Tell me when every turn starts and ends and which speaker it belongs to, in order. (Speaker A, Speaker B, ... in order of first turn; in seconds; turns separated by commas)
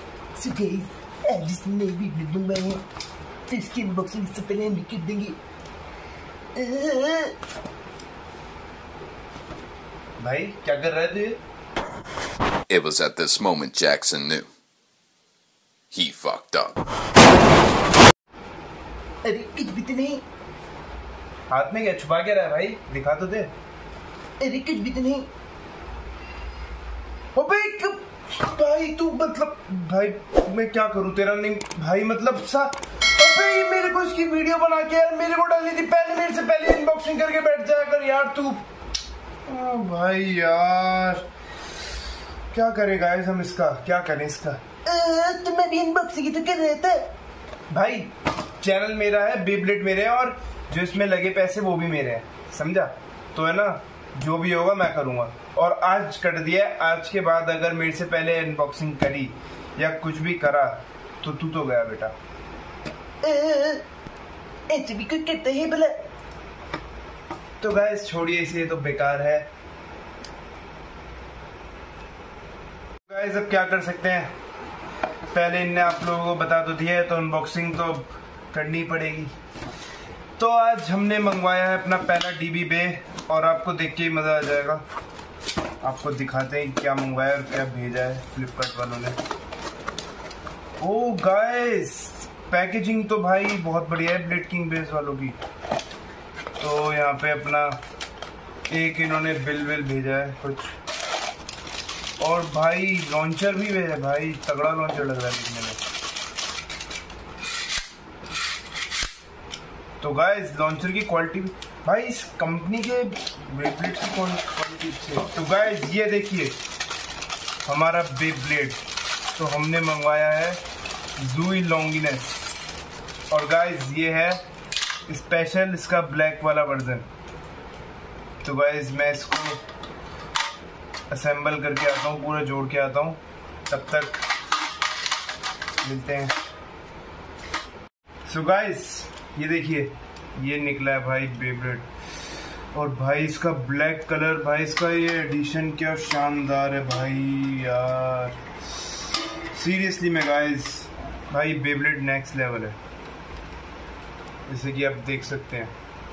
Speaker A: 0.3-2.8, Speaker A: 3.5-5.4, Speaker A: 6.5-7.3, Speaker B: 10.2-11.4, Speaker C: 12.7-14.5, Speaker C: 15.9-16.8, Speaker A: 19.2-20.2, Speaker B: 21.5-23.5, Speaker A: 24.4-25.3, Speaker B: 27.3-38.6, Speaker B: 39.5-41.2, Speaker B: 42.5-44.6, Speaker A: 44.8-47.1, Speaker B: 47.7-62.1, Speaker A: 63.2-63.8, Speaker A: 64.7-66.0, Speaker B: 67.6-69.5, Speaker B: 73.0-74.3, Speaker B: 75.3-79.3, Speaker B: 80.4-84.8, Speaker B: 85.8-89.2, Speaker B: 90.8-95.4, Speaker B: 96.6-97.8, Speaker B: 98.7-100.8, Speaker B: 102.2-105.8, Speaker B: 110.0-116.5, Speaker B: 117.7-118.8, Speaker B: 119.3-120.6, Speaker B: 121.2-122.4, Speaker B: 123.3-124.4, Speaker B: 125.1-127.1, Speaker B: 128.4-129.6, Speaker B: 131.1-134.2, Speaker B: 135.8-136.3, Speaker B: 138.2-141.9, Speaker B: 142.7-148.4, Speaker B: 149.5-152.8, Speaker B: 154.5-155.7